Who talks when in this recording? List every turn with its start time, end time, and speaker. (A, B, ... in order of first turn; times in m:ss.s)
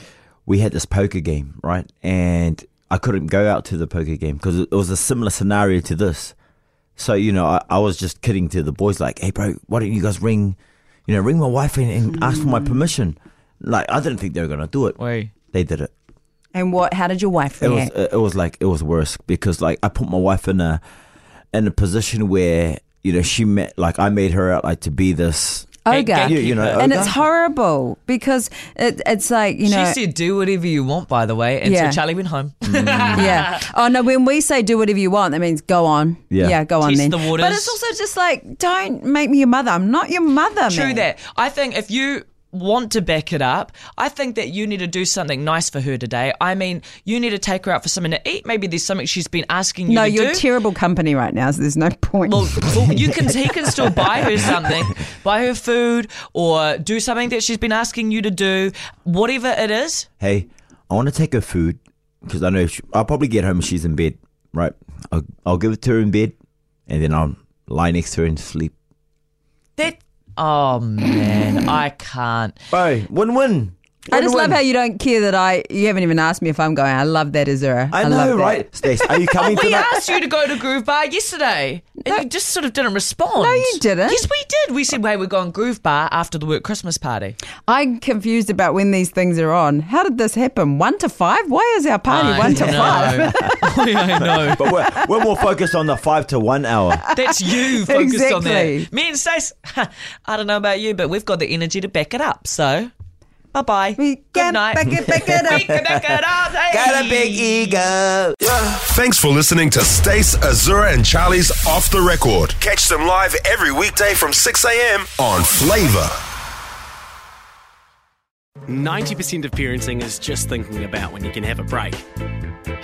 0:00.4-0:06.3 A
0:07.0-0:15.0 A
0:15.0-0:15.3 B
0:15.5-0:15.9 A
0:16.5-0:17.9 C
0:17.6-0:20.8 A
0:21.5-0:27.1 A
0:25.8-0:30.0 C
0:25.9-0:27.0 B
0:29.6-0:33.5 B
0:31.6-0:32.0 C
0:32.6-0:33.4 A
0:33.1-0:41.1 C
0:36.3-0:36.6 A
0:36.8-0:37.8 B
0:40.7-0:50.4 B
0:49.9-0:52.9 C
0:52.2-1:00.1 B
1:00.2-1:06.3 A
1:06.9-1:08.7 A
1:09.8-1:12.6 B
1:12.7-1:14.6 A
1:14.1-1:18.9 C
1:17.9-1:20.0 A
1:19.4-1:27.4 B
1:23.4-1:24.2 C
1:27.7-1:33.6 C
1:32.1-1:34.7 B
1:32.6-1:33.2 A
1:34.4-1:37.0 A
1:37.1-1:42.9 B
1:37.2-1:38.9 C
1:43.5-1:47.5 B
1:44.0-1:45.7 C
1:46.7-1:48.4 A
1:48.6-1:56.1 D
1:58.7-2:02.0 E